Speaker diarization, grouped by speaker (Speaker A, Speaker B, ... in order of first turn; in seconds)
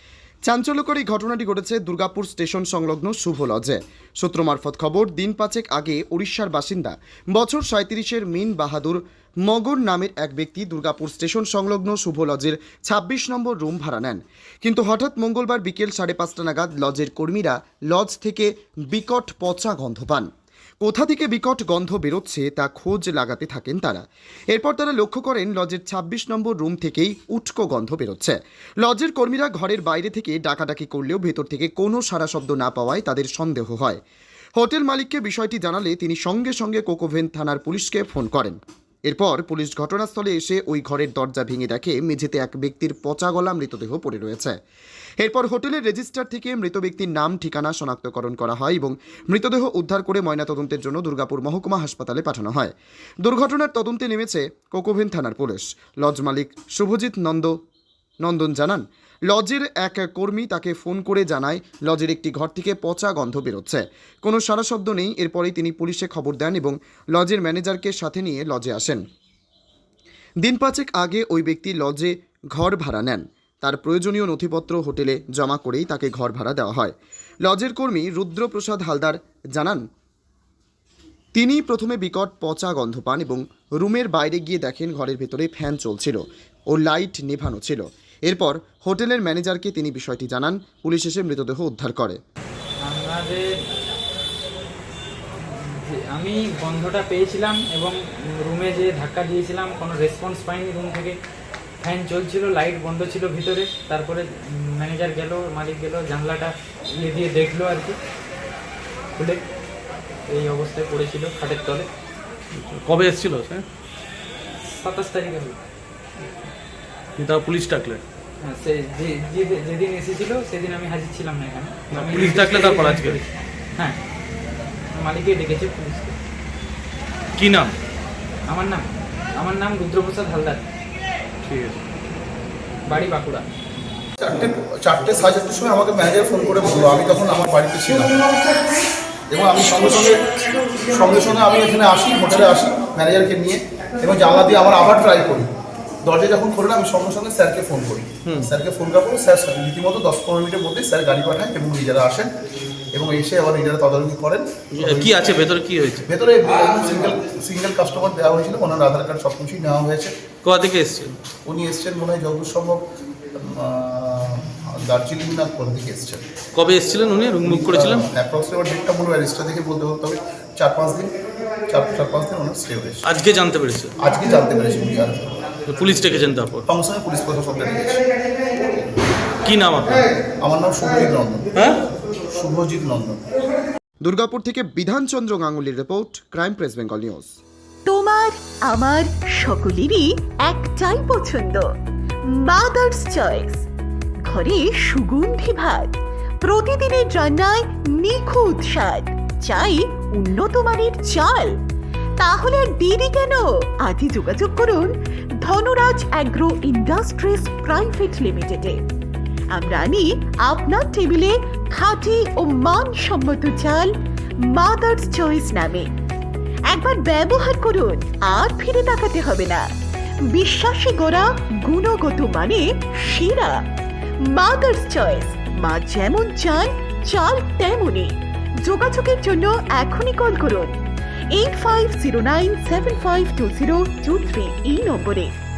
Speaker A: 0.5-20.3, 20.8-34.0, 34.6-44.6, 45.2-57.6, 58.2-69.0, 70.4-79.8, 81.3-92.2, 184.0-187.3
Speaker B: 92.8-93.5, 95.4-101.2, 101.8-108.0, 109.1-109.4, 110.3-111.9, 114.6-115.6, 118.4-124.0, 124.9-126.2, 128.5-130.6, 132.9-133.5
Speaker C: 112.5-113.6, 117.2-118.0, 121.9-123.2, 127.4-127.7, 131.4-131.8, 148.2-148.5, 154.8-156.1, 160.4-161.2, 166.5-168.0, 173.0-173.9, 175.7-176.6, 179.4-180.1
Speaker D: 134.2-138.3, 139.3-145.5, 146.0-152.3, 152.9-155.1, 156.1-160.1, 161.4-162.8, 163.3-166.2, 167.4-171.1, 171.7-173.0, 174.0-175.3, 176.7-178.0, 180.4-181.5, 182.3-183.3
Speaker E: 187.8-191.7, 192.4-193.6, 194.3-201.5, 202.2-204.9, 205.4-208.8, 209.5-213.9, 214.5-215.9, 216.7-219.6, 220.3-223.6, 224.3-230.7, 231.3-235.3